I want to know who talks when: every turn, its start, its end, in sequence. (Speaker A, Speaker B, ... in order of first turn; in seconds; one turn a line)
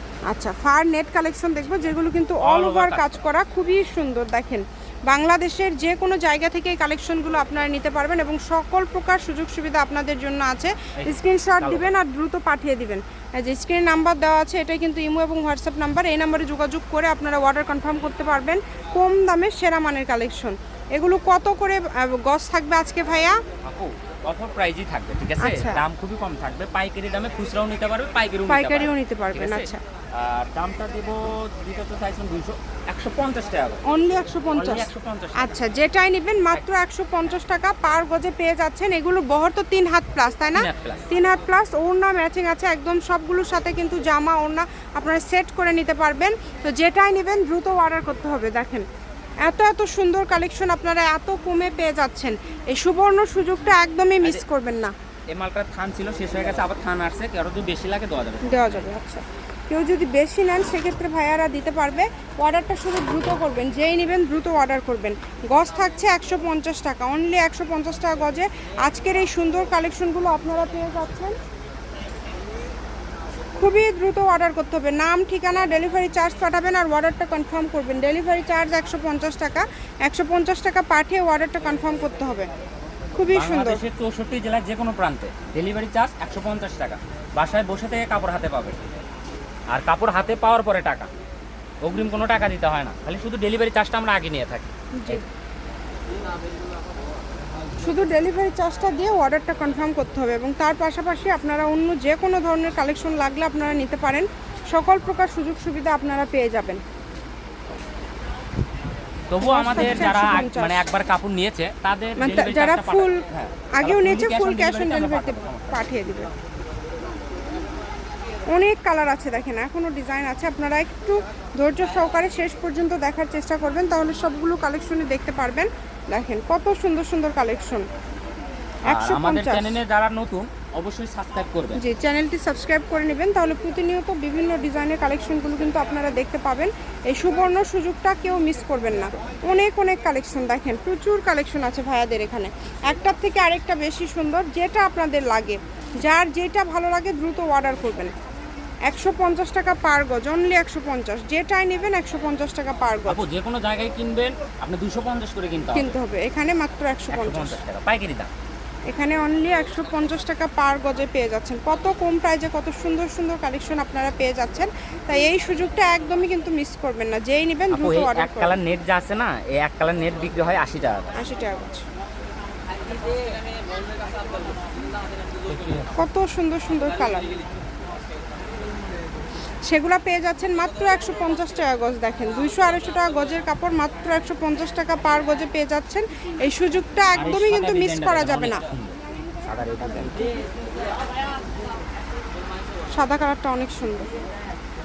Speaker A: 0.3-23.4
Speaker B: 2.4-3.2
Speaker B: 11.0-11.9
Speaker B: 23.6-33.8
Speaker A: 25.4-25.8
Speaker A: 28.5-29.8
Speaker A: 33.9-48.9
Speaker B: 34.5-35.6
Speaker B: 40.5-41.0
Speaker A: 49.4-54.9
Speaker B: 55.3-58.9
Speaker A: 58.4-71.3
Speaker A: 73.6-82.5
Speaker A: 83.1-83.8
Speaker B: 83.3-88.8
Speaker B: 89.7-91.1
Speaker B: 91.8-95.2
Speaker A: 95.0-95.2
Speaker A: 97.8-106.8
Speaker B: 109.3-115.9
Speaker A: 109.4-110.9
Speaker A: 112.2-113.2
Speaker A: 113.8-116.3
Speaker A: 118.5-127.8
Speaker A: 128.8-129.8
Speaker B: 128.9-131.8
Speaker A: 131.8-148.1
Speaker A: 148.9-153.2
Speaker B: 153.1-156.0
Speaker A: 155.7-157.6
Speaker B: 157.1-158.3
Speaker A: 158.9-168.6
Speaker B: 167.7-171.1
Speaker A: 171.1-171.8
Speaker A: 175.9-177.3
Speaker A: 179.7-188.6
Speaker B: 187.1-190.3
Speaker A: 192.9-194.1